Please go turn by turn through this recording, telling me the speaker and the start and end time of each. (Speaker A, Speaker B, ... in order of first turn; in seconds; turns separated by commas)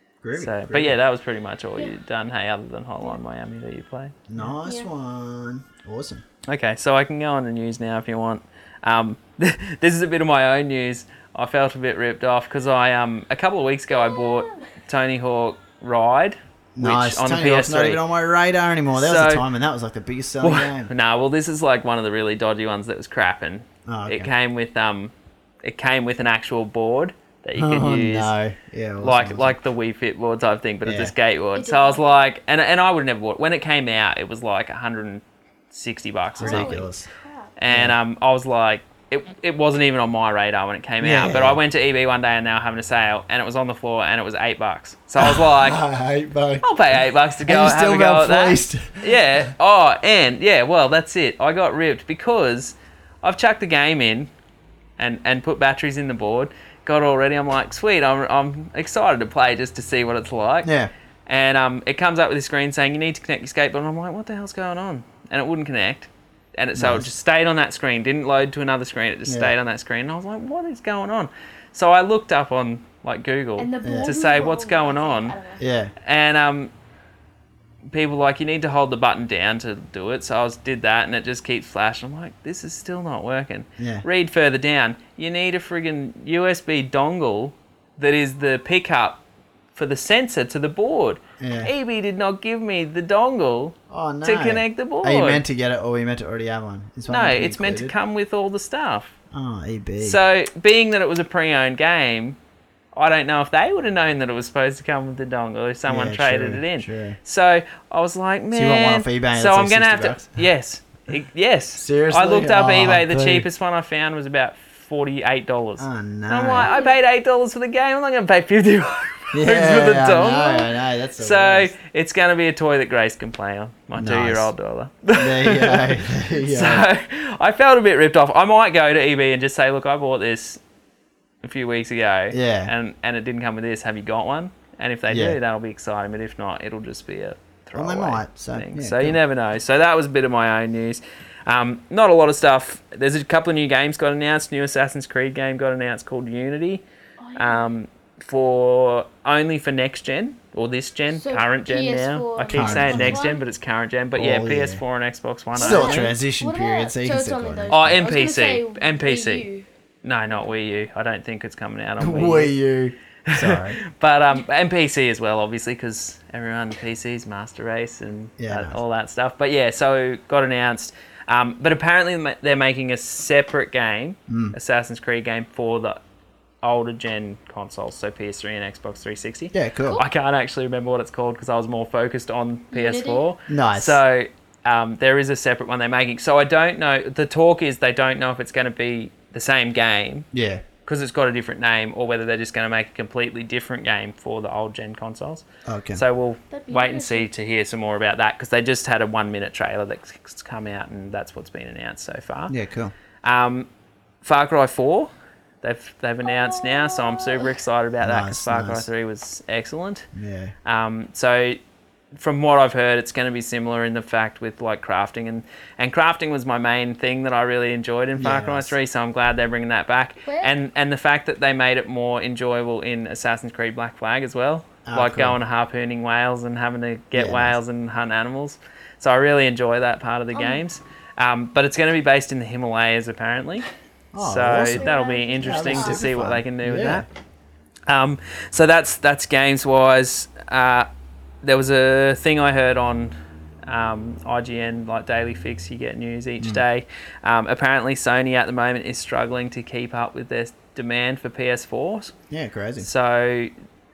Speaker A: 0.2-1.0, Speaker B: 0.4-4.2, Speaker A: 4.3-6.2, Speaker C: 4.6-4.9, Speaker B: 6.5-18.0, Speaker C: 13.9-14.6, Speaker A: 16.8-20.9, Speaker B: 18.9-19.5, Speaker B: 20.4-25.1, Speaker A: 23.9-24.3, Speaker B: 25.6-28.3, Speaker A: 27.6-29.5, Speaker B: 29.0-36.8, Speaker A: 30.9-31.1, Speaker C: 31.6-32.3, Speaker C: 36.4-37.5, Speaker A: 36.4-37.1, Speaker B: 37.6-45.8, Speaker A: 37.7-38.0, Speaker A: 41.0-41.6, Speaker A: 45.2-46.7, Speaker B: 46.6-54.3, Speaker A: 47.5-49.5, Speaker B: 55.0-60.7, Speaker A: 60.6-60.9, Speaker B: 61.3-75.4, Speaker A: 66.8-67.1, Speaker A: 69.3-69.5, Speaker C: 73.6-75.6, Speaker A: 73.8-74.1, Speaker A: 75.6-75.9, Speaker B: 76.0-76.7, Speaker B: 77.9-89.2, Speaker A: 83.8-84.0, Speaker B: 89.8-95.4, Speaker A: 91.4-91.7, Speaker A: 93.9-97.9, Speaker B: 97.1-99.2, Speaker A: 99.3-100.2, Speaker B: 100.0-102.4, Speaker B: 103.0-130.6, Speaker A: 105.9-107.2, Speaker A: 108.5-110.4, Speaker A: 111.8-113.5, Speaker A: 115.8-116.7, Speaker C: 116.6-117.0, Speaker A: 119.3-121.7, Speaker A: 124.0-124.5, Speaker A: 125.1-126.9, Speaker B: 131.4-146.8, Speaker A: 132.3-132.7, Speaker A: 135.1-135.4, Speaker A: 137.7-139.2, Speaker C: 147.2-147.7, Speaker B: 147.4-156.2, Speaker C: 151.2-153.4, Speaker A: 152.5-153.3, Speaker A: 154.2-154.8, Speaker A: 155.6-158.1, Speaker C: 155.6-159.7, Speaker B: 157.7-159.5, Speaker B: 160.0-162.5, Speaker A: 162.0-163.8, Speaker B: 163.3-176.0, Speaker A: 168.4-168.8, Speaker A: 174.3-174.6, Speaker B: 176.6-190.3, Speaker A: 179.5-180.0, Speaker C: 182.7-183.2, Speaker A: 183.5-184.0, Speaker A: 190.3-190.6, Speaker B: 190.8-195.4, Speaker A: 195.7-196.0, Speaker B: 196.0-202.5, Speaker C: 196.5-197.3, Speaker A: 202.5-202.9, Speaker B: 203.2-203.7, Speaker B: 204.2-205.1, Speaker B: 205.6-210.1, Speaker C: 206.2-207.6, Speaker A: 208.0-208.9, Speaker A: 210.1-210.5, Speaker B: 210.7-211.6, Speaker B: 212.1-233.7, Speaker A: 218.2-218.8, Speaker C: 220.2-220.5, Speaker A: 224.9-225.4, Speaker A: 227.2-227.6, Speaker C: 230.3-230.6, Speaker A: 234.1-234.9, Speaker B: 234.2-237.1, Speaker C: 234.7-236.1, Speaker A: 235.4-237.1, Speaker B: 237.9-240.9, Speaker B: 241.4-243.1, Speaker B: 243.7-252.1, Speaker A: 252.3-252.9, Speaker B: 252.8-253.5